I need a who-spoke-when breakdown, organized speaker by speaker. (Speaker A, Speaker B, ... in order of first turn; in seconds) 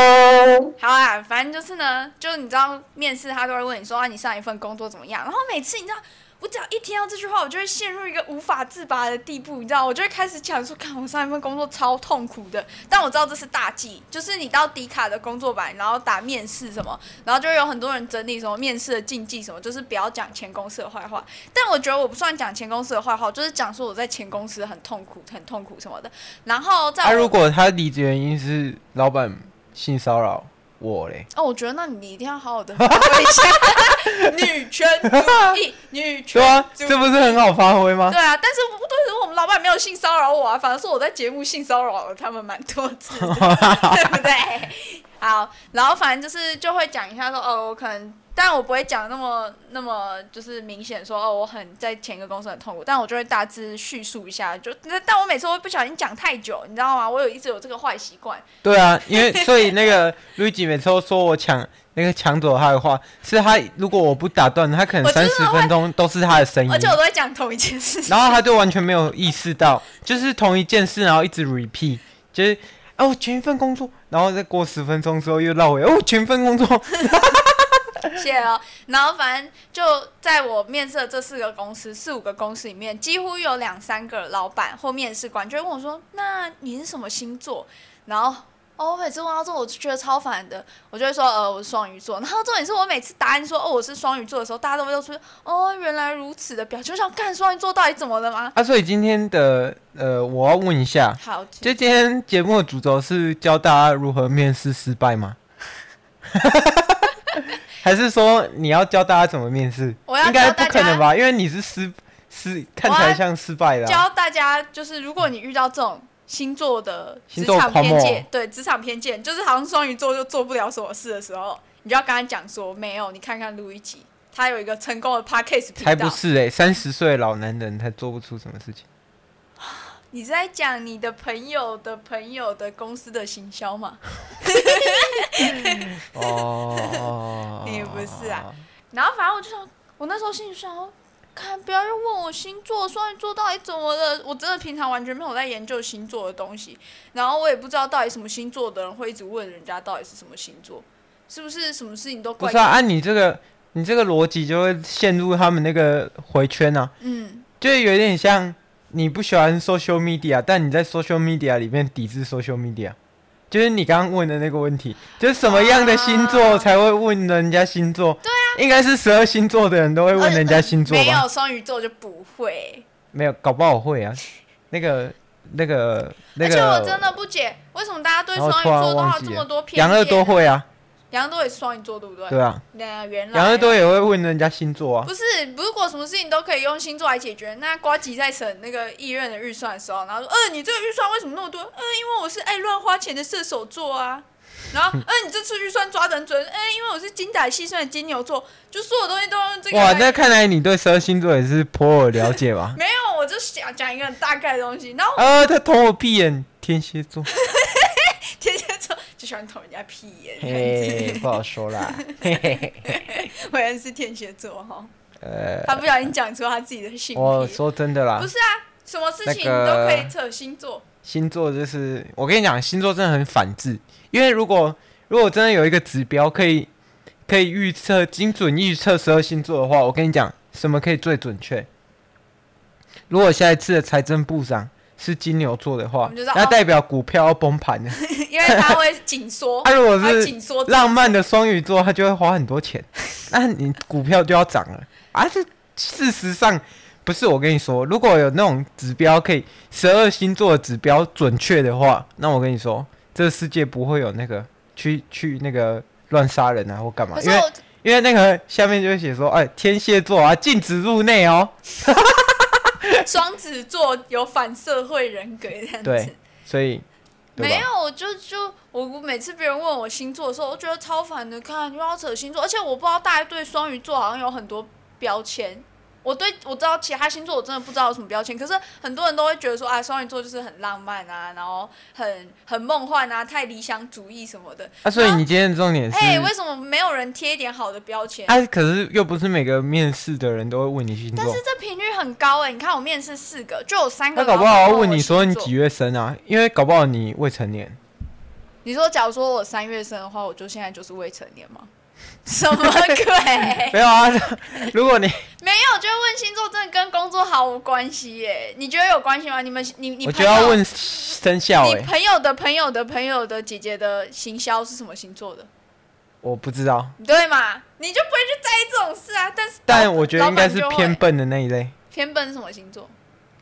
Speaker A: 0.8-27.3, 31.3-37.4, 38.1-58.4, 59.1-59.7, 65.0-65.7, 66.7-68.4, 78.1-98.5, 101.2-101.8, 110.1-111.0, 112.8-113.2, 113.8-126.2, 129.6-152.8, 157.0-157.4, 165.4-166.7, 168.2-168.6, 170.1-172.8, 176.3-180.5, 181.1-183.8, 185.0-200.2, 202.7-205.3, 207.2-211.3, 211.9-214.9, 215.6-217.6, 218.2-220.8, 236.0-236.6, 237.9-241.2, 257.1-257.6, 263.0-266.2, 267.4-285.2, 285.9-288.4, 291.1-295.5, 298.6-301.7, 302.2-303.8, 305.4-310.6, 311.6-315.5, 317.0-321.0, 321.9-322.9
Speaker B: 27.0-31.3, 32.9-33.5, 35.1-35.6, 36.3-38.2, 43.1-44.2, 58.6-67.0, 68.1-77.8, 98.5-105.4, 106.3-107.2, 107.8-114.0, 117.3-118.3, 125.8-128.8, 135.7-138.6, 152.4-156.9, 157.6-162.9, 163.5-171.2, 173.1-177.1, 178.3-180.7, 182.3-182.6, 183.3-185.1, 199.7-202.8, 205.2-207.3, 210.4-213.2, 215.2-215.9, 217.1-218.3, 219.2-220.1, 221.0-226.7, 227.3-231.7, 233.1-238.8, 239.6-263.0, 265.8-266.8, 267.4-267.6, 284.8-286.3, 288.3-291.4, 294.1-297.8, 303.6-305.2, 310.0-311.9, 316.2-316.9, 319.7-321.7